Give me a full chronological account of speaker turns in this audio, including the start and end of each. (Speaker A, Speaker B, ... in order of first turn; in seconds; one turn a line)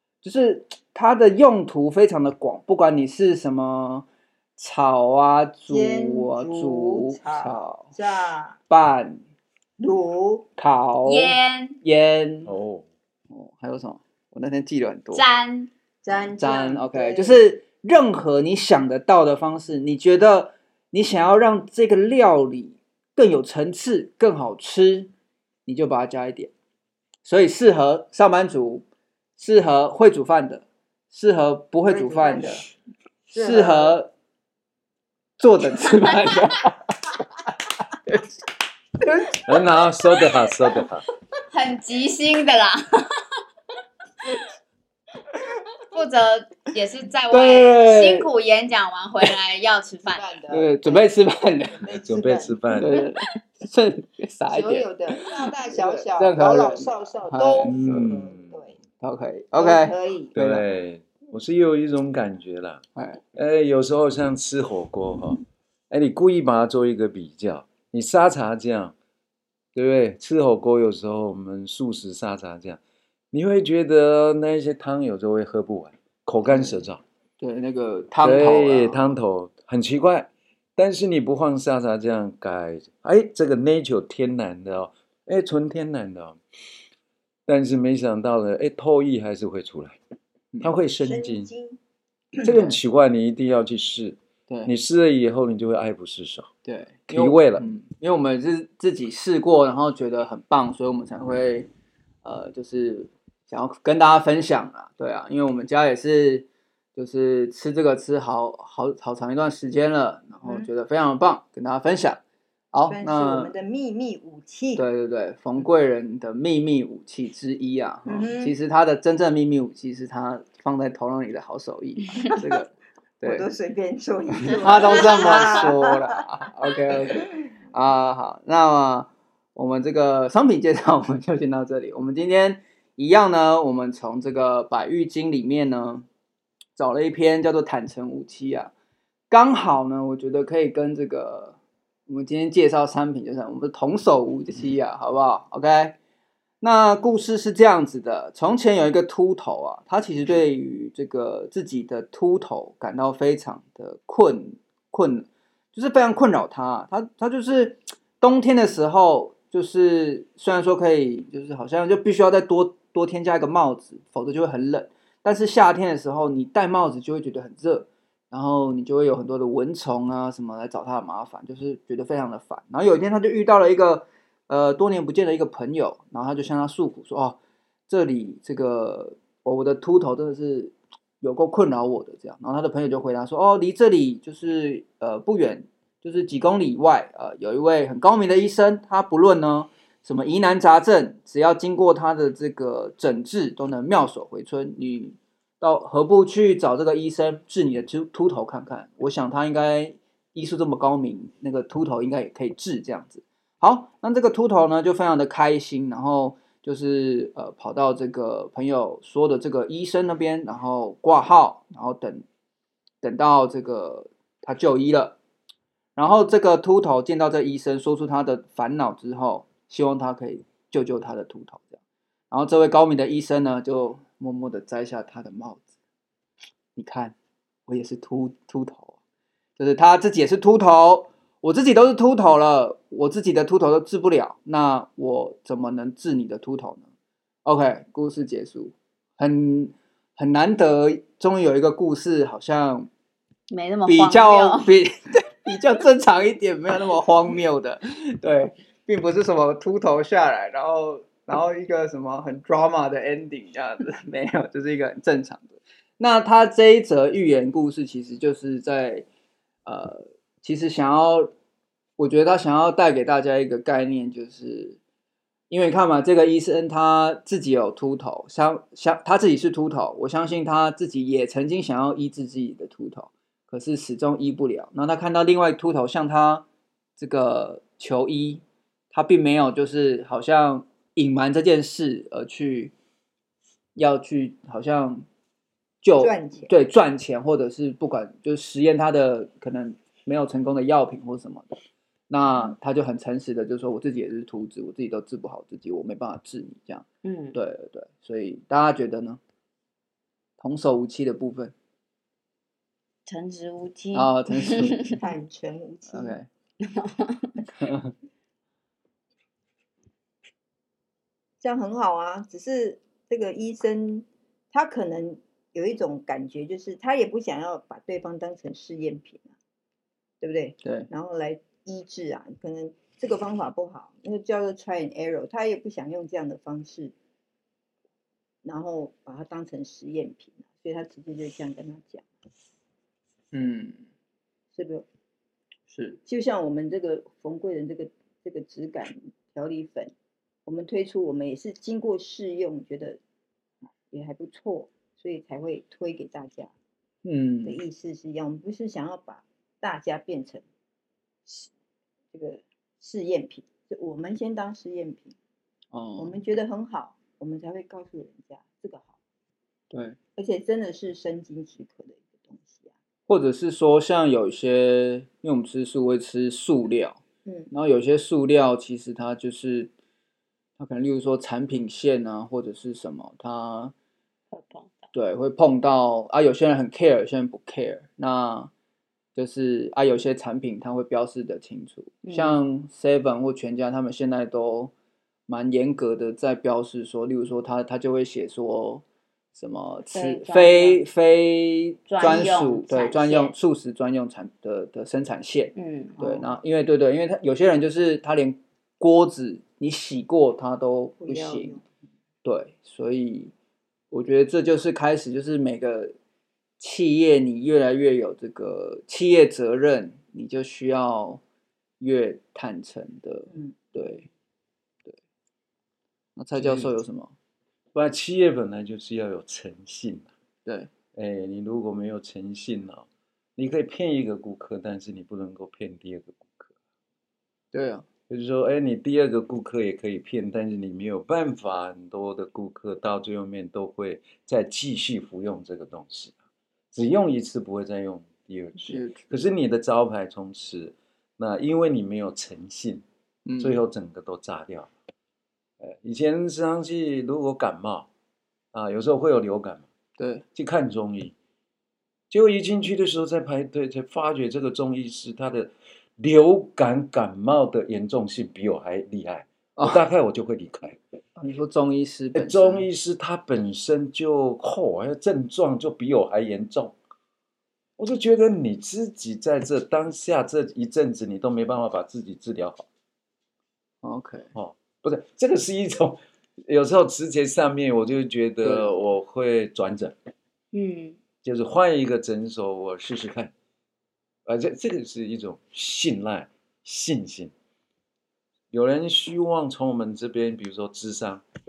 Speaker A: 0.2-4.1
Speaker A: 4.6-7.9
Speaker B: 5.7-8.6
Speaker A: 8.7-9.2
Speaker B: 9.8-10.5
Speaker A: 10.6-12.5
Speaker C: 11.1-11.8
Speaker D: 12.4-12.9
Speaker A: 13.3-15.2
Speaker C: 15.1-15.7
Speaker B: 16.0-17.4
Speaker A: 16.4-25.1
Speaker A: 25.7-26.5
Speaker A: 27.2-28.9
Speaker A: 29.4-32.6
Speaker B: 31.9-32.6
Speaker B: 33.3-34.0
Speaker A: 33.3-34.1
Speaker A: 35.4-36.9
Speaker A: 39.0-39.4
Speaker D: 39.5-41.1
Speaker C: 41.5-43.2
Speaker C: 45.9-50.2
Speaker A: 47.3-48.3
Speaker B: 50.1-51.1
Speaker A: 50.5-51.9
Speaker B: 51.7-52.6
Speaker D: 52.0-53.1
Speaker A: 52.7-58.1
Speaker B: 54.5-58.8
Speaker D: 57.6-58.6
Speaker A: 59.0-60.6
Speaker B: 59.5-60.3
Speaker D: 60.3-69.0
Speaker D: 69.8-72.8
Speaker D: 73.3-77.0
Speaker A: 76.5-76.9
Speaker A: 77.4-79.0
Speaker D: 78.2-86.4
Speaker D: 87.5-90.0
Speaker D: 90.6-91.5
Speaker B: 91.0-91.8
Speaker B: 92.4-92.7
Speaker D: 92.4-96.5
Speaker A: 94.5-94.7
Speaker A: 96.7-101.7
Speaker D: 97.1-97.7
Speaker A: 102.2-112.2
Speaker A: 112.7-113.5
Speaker B: 112.9-114.8
Speaker A: 114.8-123.5
Speaker B: 118.1-118.5
Speaker B: 123.2-126.2
Speaker A: 124.4-136.1
Speaker B: 126.9-127.3
Speaker A: 136.8-138.7
Speaker A: 139.3-146.0
Speaker A: 146.6-177.4
Speaker A: 177.9-212.2
Speaker A: 213.0-215.2
Speaker A: 216.0-221.8
Speaker A: 222.3-225.7
Speaker A: 226.8-227.2
Speaker A: 227.7-228.9
Speaker A: 229.6-236.9
Speaker A: 237.4-242.9
Speaker C: 243.5-244.7
Speaker A: 243.9-259.1
Speaker A: 259.6-261.3
Speaker A: 262.0-264.8
Speaker A: 265.5-276.4
Speaker A: 277.0-282.7
Speaker A: 283.8-285.1
Speaker A: 285.8-291.5
Speaker B: 286.0-286.5
Speaker A: 292.1-299.2
Speaker C: 297.0-297.4
Speaker A: 300.4-301.5
Speaker C: 303.1-305.0
Speaker A: 303.9-304.9
Speaker B: 304.8-306.2
Speaker A: 305.9-306.3
Speaker C: 306.6-307.4
Speaker A: 307.6-307.9
Speaker B: 311.4-319.3
Speaker B: 320.2-326.9
Speaker A: 320.6-320.9
Speaker B: 328.4-332.1
Speaker A: 333.3-333.9
Speaker B: 334.5-334.9
Speaker A: 335.7-336.0
Speaker B: 336.1-339.9
Speaker B: 340.5-343.0
Speaker B: 343.9-346.5
Speaker A: 347.0-347.6
Speaker B: 347.4-350.4
Speaker B: 352.1-355.2
Speaker A: 355.7-356.2
Speaker B: 356.0-358.9
Speaker A: 359.7-360.0
Speaker B: 360.2-362.7
Speaker A: 363.1-367.0
Speaker B: 367.2-367.5
Speaker A: 367.5-369.7
Speaker A: 370.6-373.7
Speaker C: 374.3-374.9
Speaker A: 374.9-378.5
Speaker A: 379.1-384.7
Speaker C: 382.0-382.4
Speaker A: 385.3-401.6
Speaker C: 389.9-390.9
Speaker C: 391.9-393.3
Speaker C: 395.6-396.2
Speaker B: 401.0-401.7
Speaker A: 402.2-403.3
Speaker A: 403.9-405.9
Speaker A: 406.6-411.2
Speaker A: 411.8-414.1
Speaker B: 413.3-413.6
Speaker A: 416.2-417.1
Speaker D: 416.4-416.7
Speaker D: 417.7-420.1
Speaker D: 420.9-426.5
Speaker A: 427.5-427.9
Speaker D: 428.1-436.1
Speaker D: 436.7-442.8
Speaker A: 438.6-439.1
Speaker A: 443.3-443.6
Speaker D: 443.4-444.7
Speaker D: 445.6-447.9
Speaker D: 448.5-449.7
Speaker A: 450.0-450.2
Speaker D: 450.4-451.1
Speaker D: 452.1-460.8
Speaker A: 459.6-459.8
Speaker A: 461.2-462.7
Speaker D: 462.1-466.8
Speaker D: 467.8-472.7
Speaker A: 473.8-474.3
Speaker D: 474.4-479.9
Speaker A: 478.4-478.7
Speaker C: 480.5-481.0
Speaker D: 481.2-483.3
Speaker D: 484.3-487.3
Speaker D: 488.5-491.2